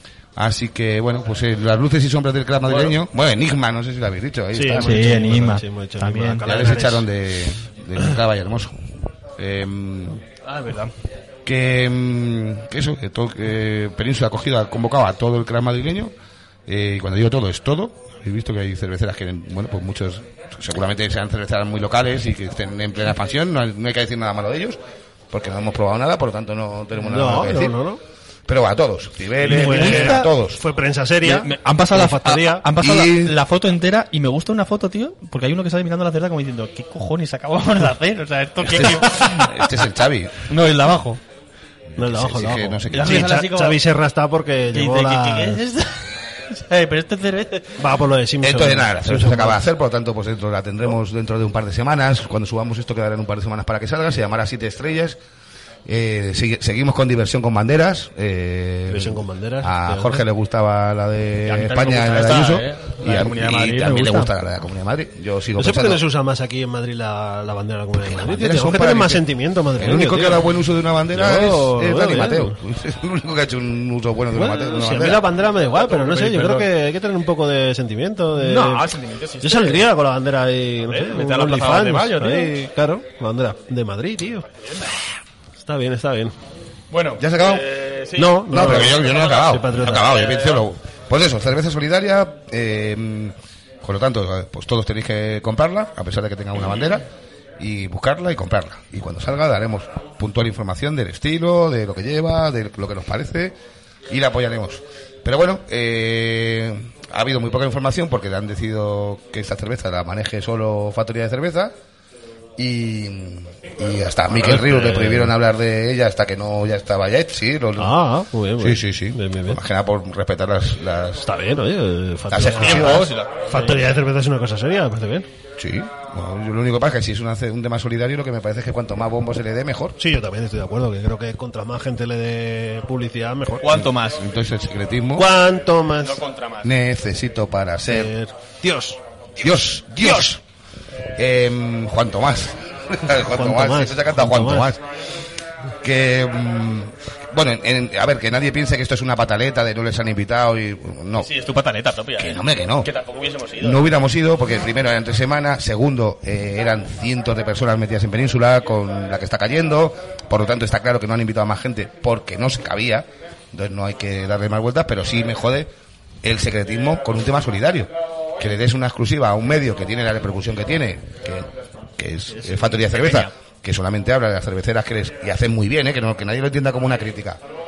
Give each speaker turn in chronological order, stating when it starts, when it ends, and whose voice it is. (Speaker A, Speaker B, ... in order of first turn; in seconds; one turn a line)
Speaker A: 0.3-5.2
Speaker B: 2.7-2.9
Speaker C: 4.5-7.1
Speaker B: 4.7-6.8
Speaker A: 6.4-8.8
Speaker A: 9.4-10.2
Speaker B: 10.4-10.9
Speaker A: 11.4-16.1
Speaker A: 16.7-24.8
Speaker A: 25.3-27.8
Speaker C: 27.0-28.0
Speaker A: 28.5-30.6
Speaker B: 29.4-30.3
Speaker C: 29.4-32.6
Speaker B: 31.2-39.6
Speaker A: 32.8-33.4
Speaker A: 38.7-40.5
Speaker B: 40.5-41.2
Speaker A: 42.0-43.4
Speaker C: 42.0-45.6
Speaker B: 42.9-43.8
Speaker B: 44.7-47.8
Speaker C: 47.8-49.6
Speaker A: 48.4-55.2
Speaker A: 55.9-66.0
Speaker C: 58.9-60.2
Speaker B: 61.5-64.3
Speaker C: 65.6-70.4
Speaker A: 68.0-75.2
Speaker C: 71.1-72.6
Speaker C: 74.3-78.9
Speaker B: 75.5-76.6
Speaker B: 78.4-79.9
Speaker C: 79.4-84.5
Speaker B: 80.9-82.6
Speaker C: 85.6-86.3
Speaker B: 86.9-90.7
Speaker A: 87.2-87.7
Speaker C: 88.2-90.1
Speaker A: 88.5-97.0
Speaker A: 97.6-103.5
Speaker A: 104.1-111.7
Speaker A: 112.6-118.0
Speaker C: 114.4-115.3
Speaker C: 117.8-119.6
Speaker A: 118.6-121.3
Speaker C: 121.2-125.3
Speaker A: 122.3-123.1
Speaker B: 122.6-123.9
Speaker A: 125.6-129.9
Speaker C: 130.0-133.8
Speaker B: 133.6-134.2
Speaker A: 133.7-135.3
Speaker C: 135.2-136.2
Speaker B: 136.0-136.7
Speaker A: 136.6-138.1
Speaker C: 137.9-139.0
Speaker A: 139.4-140.4
Speaker B: 140.0-140.3
Speaker A: 141.2-144.8
Speaker C: 143.3-144.7
Speaker A: 145.8-151.3
Speaker B: 151.2-153.8
Speaker A: 152.2-152.9
Speaker A: 153.6-165.7
Speaker A: 166.2-177.4
Speaker B: 172.3-173.3